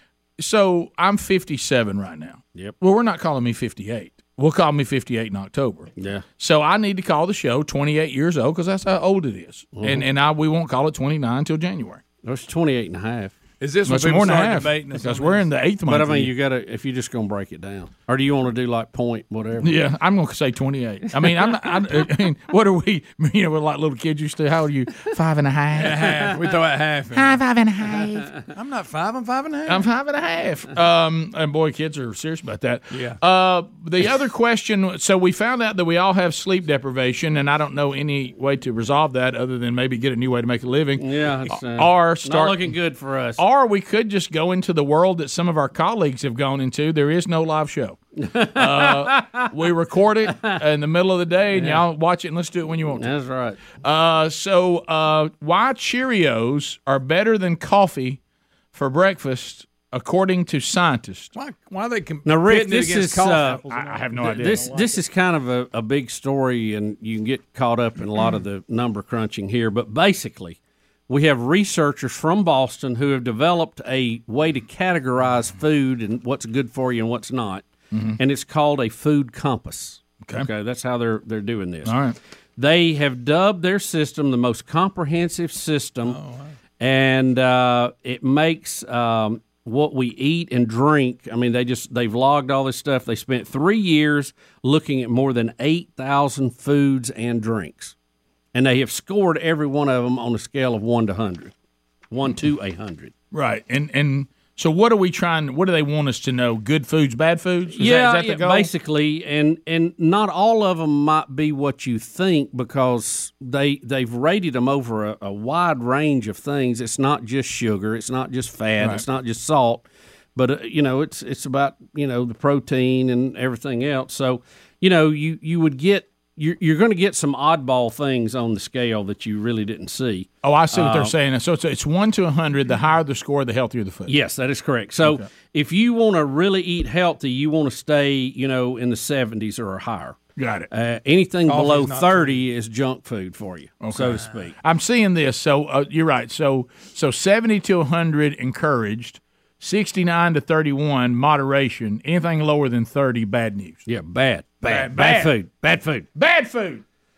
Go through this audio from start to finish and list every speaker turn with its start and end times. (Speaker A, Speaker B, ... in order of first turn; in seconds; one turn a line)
Speaker A: 0.4-12.0
Speaker B: 6.0-6.2
Speaker B: 9.7-10.1
Speaker B: 12.2-13.3
Speaker C: 13.6-15.5
Speaker A: 13.8-16.3
Speaker B: 15.8-19.8
Speaker A: 19.6-26.3
Speaker C: 25.8-27.4
Speaker A: 27.1-28.5
Speaker C: 28.5-29.9
Speaker A: 29.7-42.7
Speaker C: 32.9-33.2
Speaker B: 41.0-43.4
Speaker A: 43.4-48.0
Speaker B: 48.2-49.5
Speaker A: 48.5-53.1
Speaker B: 50.3-50.6
Speaker B: 51.5-51.8
Speaker B: 52.9-53.6
Speaker A: 53.8-58.2
Speaker A: 58.7-61.3
Speaker C: 61.3-64.9
Speaker B: 62.2-63.6
Speaker A: 63.6-64.7
Speaker B: 64.2-70.6
Speaker B: 71.1-77.7
Speaker A: 77.9-78.2
Speaker B: 78.2-82.0
Speaker A: 81.8-82.2
Speaker B: 82.6-86.2
Speaker C: 86.0-86.5
Speaker B: 86.8-97.9
Speaker B: 98.5-101.5
Speaker B: 102.1-103.1
Speaker A: 103.3-108.7
Speaker B: 107.7-131.1
Speaker A: 130.4-134.1
Speaker B: 134.1-140.2
Speaker A: 140.4-140.7
Speaker B: 140.7-144.5
Speaker C: 141.5-142.4
Speaker A: 143.8-153.8
Speaker B: 153.8-156.1
Speaker A: 154.6-155.3
Speaker A: 156.1-156.8